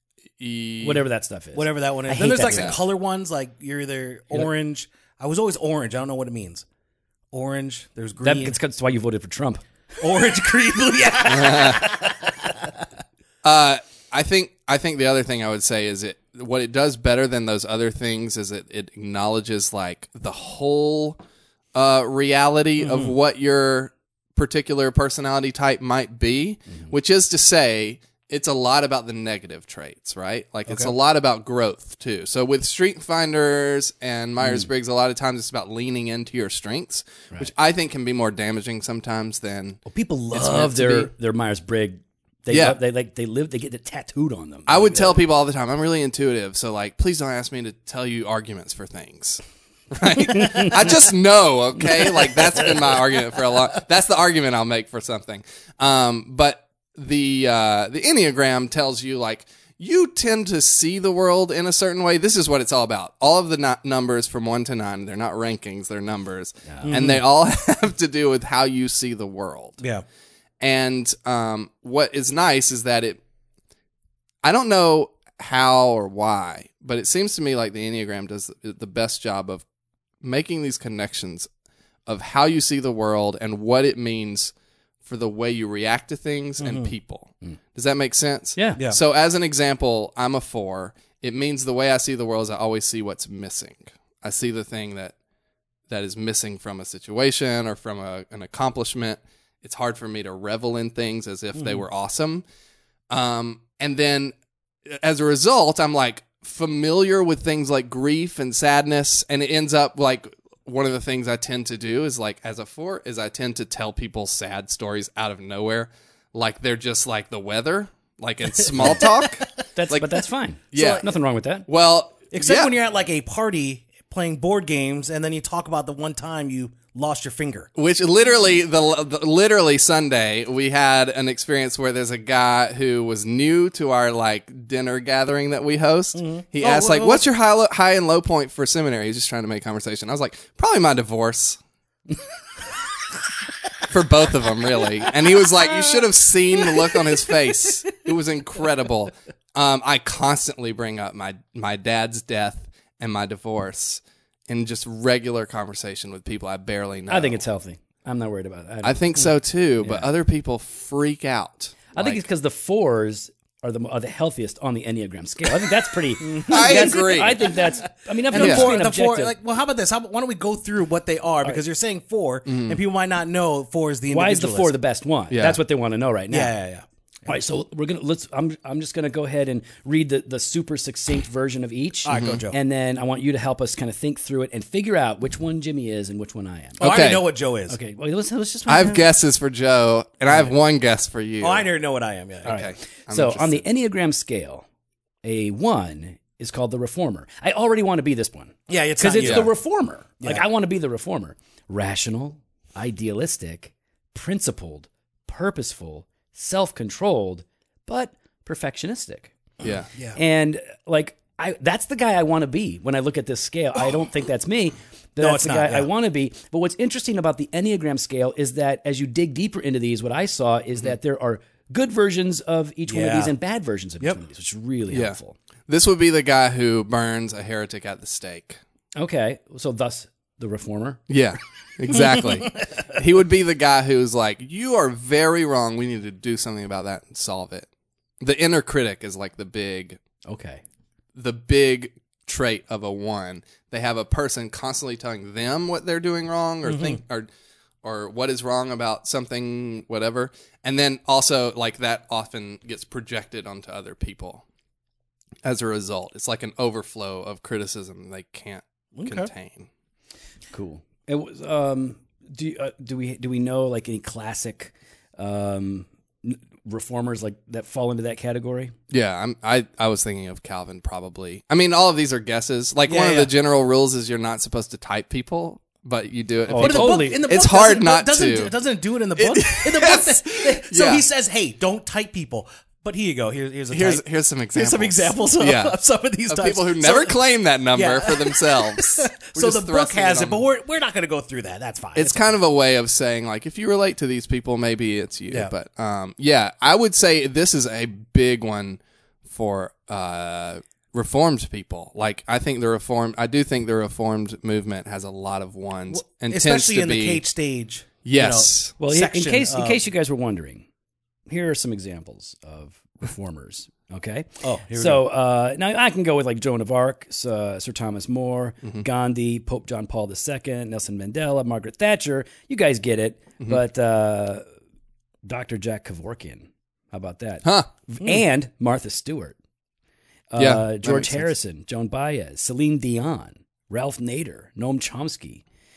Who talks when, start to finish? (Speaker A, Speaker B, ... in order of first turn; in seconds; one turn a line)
Speaker A: 0.4-1.0
Speaker B: 0.8-2.8
Speaker C: 1.5-6.6
Speaker A: 2.5-2.8
Speaker C: 7.3-8.6
Speaker B: 8.2-9.6
Speaker C: 10.0-12.7
Speaker A: 11.2-11.9
Speaker A: 13.4-21.2
Speaker A: 21.7-39.8
Speaker C: 22.8-23.1
Speaker C: 30.7-30.9
Speaker B: 39.9-45.2
Speaker A: 40.3-41.1
Speaker A: 42.5-42.8
Speaker A: 44.7-69.8
Speaker B: 50.3-50.8
Speaker B: 52.3-52.7
Speaker B: 66.7-67.0
Speaker C: 66.8-67.2
Speaker A: 70.6-73.2
Speaker A: 74.4-79.6
Speaker A: 80.2-81.5
Speaker A: 82.0-95.1
Speaker C: 86.6-86.9
Speaker B: 88.6-88.8
Speaker A: 95.9-102.4
Speaker A: 103.1-104.3
Speaker A: 104.8-121.1
Speaker C: 118.7-119.2
Speaker B: 119.8-121.7
Speaker A: 121.7-122.7
Speaker C: 122.3-127.7
Speaker A: 127.7-141.6
Speaker C: 136.2-137.2
Speaker A: 143.9-157.4
Speaker B: 157.1-159.0
Speaker A: 158.8-162.2
Speaker B: 159.8-160.1
Speaker B: 161.9-169.3
Speaker C: 166.2-167.7
Speaker A: 166.4-167.6
Speaker C: 168.3-174.8
Speaker A: 168.3-168.7
Speaker A: 172.5-172.8
Speaker B: 174.1-176.5
Speaker A: 175.3-175.6
Speaker C: 176.3-176.8
Speaker B: 177.2-186.8
Speaker C: 182.0-182.6
Speaker A: 182.1-182.4
Speaker A: 186.8-187.2
Speaker C: 186.8-187.8
Speaker B: 187.7-189.1
Speaker A: 188.7-191.7
Speaker C: 191.4-192.6
Speaker A: 192.4-193.6
Speaker B: 192.4-194.7
Speaker B: 195.2-209.3
Speaker C: 198.7-199.5
Speaker A: 199.2-199.5
Speaker A: 209.6-209.9
Speaker B: 210.1-225.3
Speaker C: 215.2-215.9
Speaker C: 222.9-223.3
Speaker A: 224.9-225.2
Speaker A: 225.7-228.6
Speaker B: 228.9-231.0
Speaker A: 231.1-237.7
Speaker A: 238.2-240.0
Speaker B: 240.2-240.6
Speaker A: 241.1-247.3
Speaker C: 246.7-247.0
Speaker A: 247.8-254.4
Speaker A: 255.4-259.7
Speaker C: 258.9-259.3
Speaker B: 260.5-268.7
Speaker A: 268.9-278.5
Speaker C: 272.9-273.3
Speaker B: 276.5-277.2
Speaker C: 276.6-284.0
Speaker A: 279.1-281.0
Speaker A: 283.7-285.8
Speaker C: 284.5-287.2
Speaker A: 286.3-290.5
Speaker C: 287.7-292.3
Speaker A: 291.9-307.2
Speaker C: 305.9-309.8
Speaker A: 308.0-308.7
Speaker B: 308.8-310.6
Speaker B: 311.3-324.4
Speaker C: 314.4-315.0
Speaker B: 325.2-329.4
Speaker A: 327.4-327.7
Speaker B: 330.3-335.4
Speaker A: 330.4-331.3